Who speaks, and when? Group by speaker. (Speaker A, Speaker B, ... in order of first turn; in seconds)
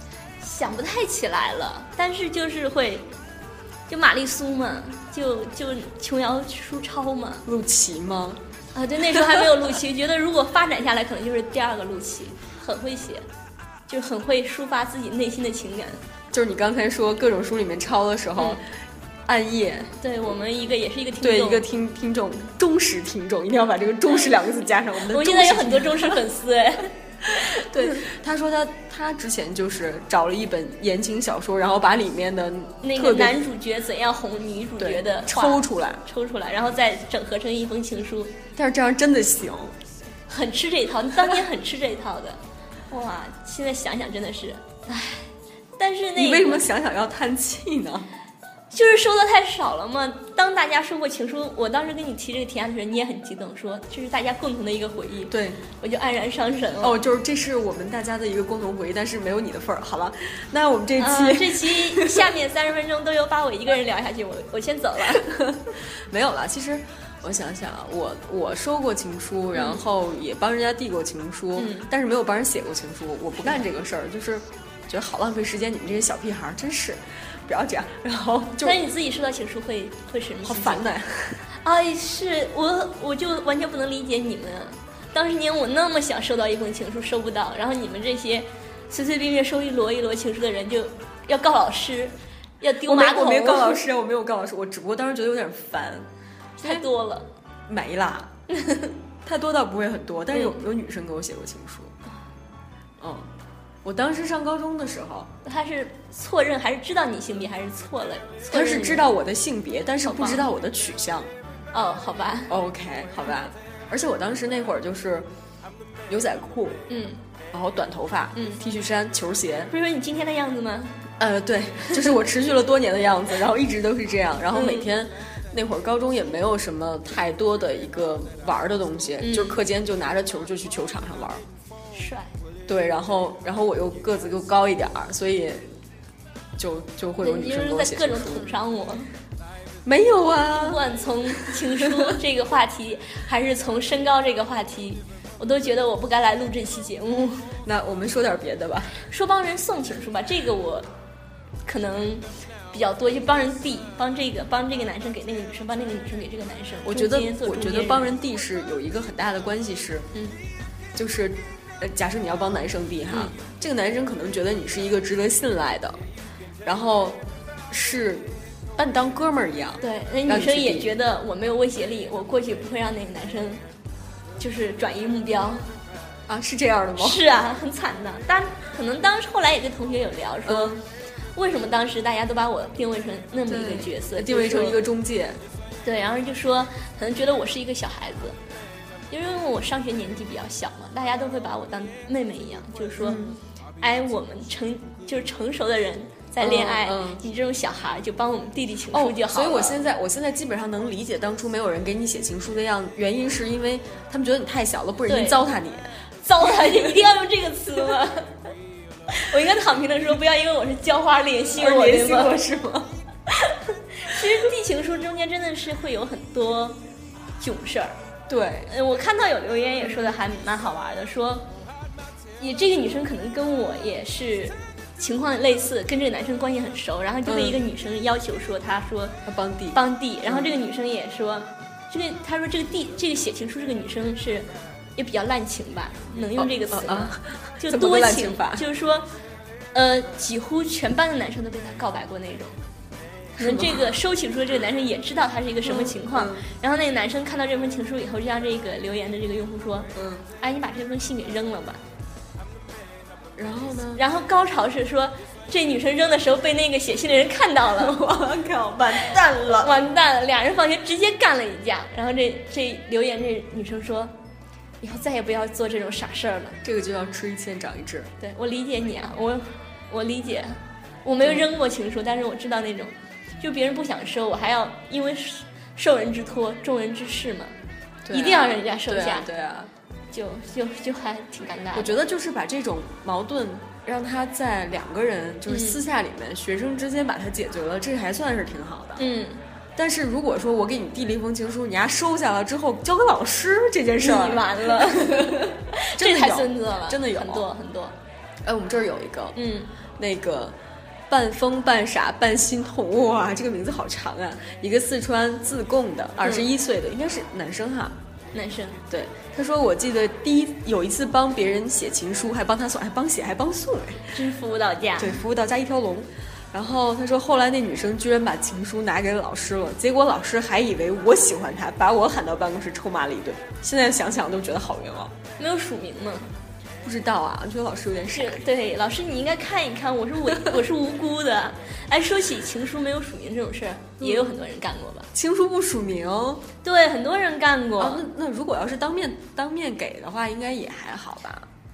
Speaker A: 0.4-3.1, 3.9-7.5, 8.7-13.3, 13.9-16.0, 20.0-21.6, 25.0-27.9, 32.8-38.4, 40.3-46.7, 48.7-57.0, 61.0-65.3, 69.5-69.8, 71.6-71.9, 78.6-80.8, 81.6-93.8, 96.6-97.3, 98.5-98.9, 100.3-100.6, 105.4-109.1, 110.0-110.5, 111.7-112.5, 116.9-117.2, 118.3-118.6, 119.7-121.0, 124.5-124.9, 129.2-129.6, 131.9-132.3, 137.2-139.1, 140.5-147.5, 149.0-150.9, 151.7-158.1, 169.8-173.6, 174.4-175.7, 177.0-180.8, 181.3-184.8, 185.8-188.4, 189.1-193.2, 193.8-199.8, 205.1-205.4, 206.2-208.3, 209.1-212.4, 213.3-216.8, 217.4-218.0, 218.7-221.5, 222.4-229.2, 229.7-239.1, 239.7-242.6, 243.4-251.8, 253.9-258.0, 259.5-264.1, 264.8-266.6, 268.2-277.5, 278.1-279.3, 280.1-282.0, 285.5-285.8, 289.0-289.4, 294.0-298.0, 299.4-299.7, 308.3-308.8, 314.1-315.2, 325.4-326.3, 328.1-335.1, 336.6-338.0
Speaker B: 7.5-8.4, 16.3-18.7, 19.3-19.9, 21.2-26.2, 27.4-33.4, 34.8-36.0, 38.5-39.8, 46.2-48.1, 55.3-55.6, 56.8-62.3, 65.1-78.8, 80.4-81.5, 92.9-96.1, 97.7-98.3, 99.2-101.9, 103.0-103.3, 103.8-105.3, 108.5-111.3, 112.5-115.3, 116.1-116.8, 117.5-119.7, 121.2-131.4, 132.7-135.6, 136.6-138.5, 139.8-140.8, 141.5-142.1, 147.6-149.0, 156.8-160.1, 160.9-166.0, 166.6-170.9, 176.3-177.2, 180.4-180.8, 183.5-185.4, 193.0-193.4, 196.4-197.2, 198.9-205.9, 206.4-206.9, 211.6-212.9, 218.3-218.7, 227.3-227.6, 229.3-230.5, 236.4-238.7, 243.4-244.0, 245.6-246.4, 249.9-250.2, 253.4-254.0, 257.8-259.8, 266.6-268.1, 278.1-279.7, 281.7-289.0, 289.8-297.5, 298.4-299.4, 300.0-300.6, 301.1-308.0, 308.9-314.1, 315.0-325.1, 326.8-328.4, 334.0-334.3, 335.1-336.4, 337.8-341.5